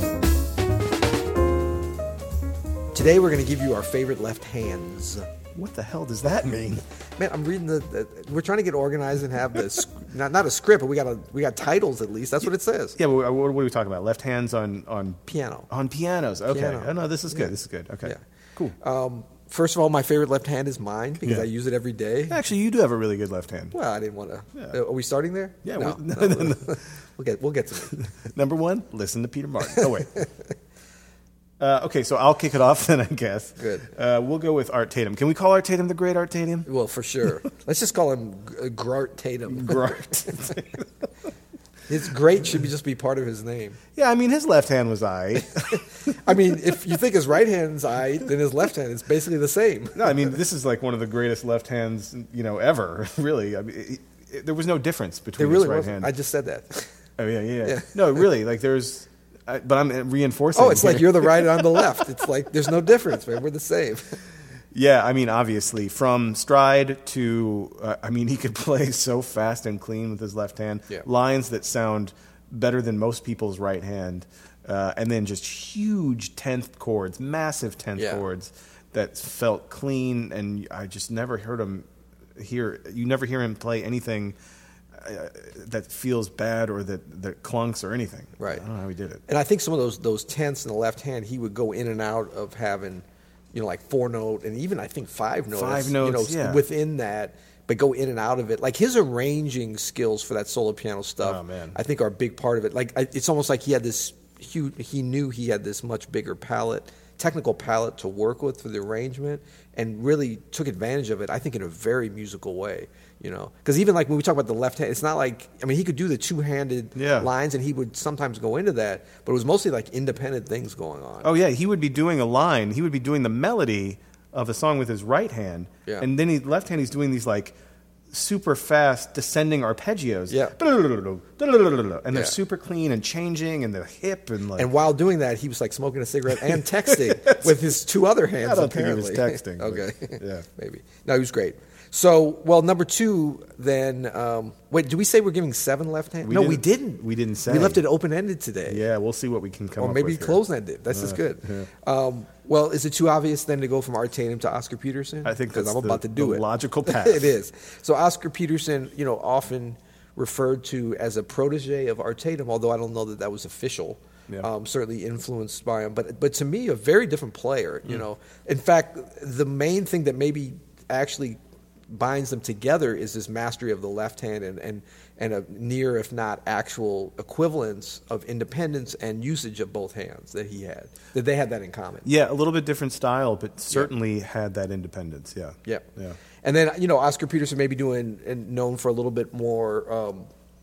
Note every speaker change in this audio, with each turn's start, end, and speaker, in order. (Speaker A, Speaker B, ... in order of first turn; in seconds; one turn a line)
Speaker A: 2.9-5.3
Speaker B: 5.5-6.8
Speaker A: 7.2-13.0
Speaker B: 13.0-18.8
Speaker A: 15.3-15.7
Speaker A: 16.5-18.2
Speaker A: 18.8-22.4
Speaker B: 22.3-23.8
Speaker A: 23.7-28.1
Speaker B: 25.6-26.8
Speaker B: 27.9-30.3
Speaker A: 29.7-30.3
Speaker B: 31.6-36.7
Speaker A: 33.6-33.9
Speaker A: 36.7-40.6
Speaker B: 39.5-40.8
Speaker A: 41.9-43.8
Speaker B: 44.0-46.4
Speaker A: 45.7-50.3
Speaker B: 50.0-56.1
Speaker A: 55.4-57.0
Speaker B: 57.2-62.0
Speaker A: 57.6-58.3
Speaker A: 60.5-64.2
Speaker B: 64.7-81.9
Speaker A: 78.0-78.2
Speaker B: 82.4-84.4
Speaker B: 85.0-89.2
Speaker A: 88.4-88.6
Speaker A: 89.3-121.3
Speaker B: 95.5-96.6
Speaker B: 101.2-101.8
Speaker B: 117.0-117.3
Speaker B: 121.2-127.5
Speaker B: 128.1-134.7
Speaker A: 130.3-130.6
Speaker A: 132.1-132.4
Speaker A: 134.6-148.8
Speaker B: 137.1-137.3
Speaker B: 138.4-140.5
Speaker B: 146.2-147.8
Speaker B: 148.7-151.7
Speaker A: 149.8-171.4
Speaker B: 155.2-157.3
Speaker A: 171.9-182.1
Speaker B: 182.1-186.2
Speaker A: 186.4-190.3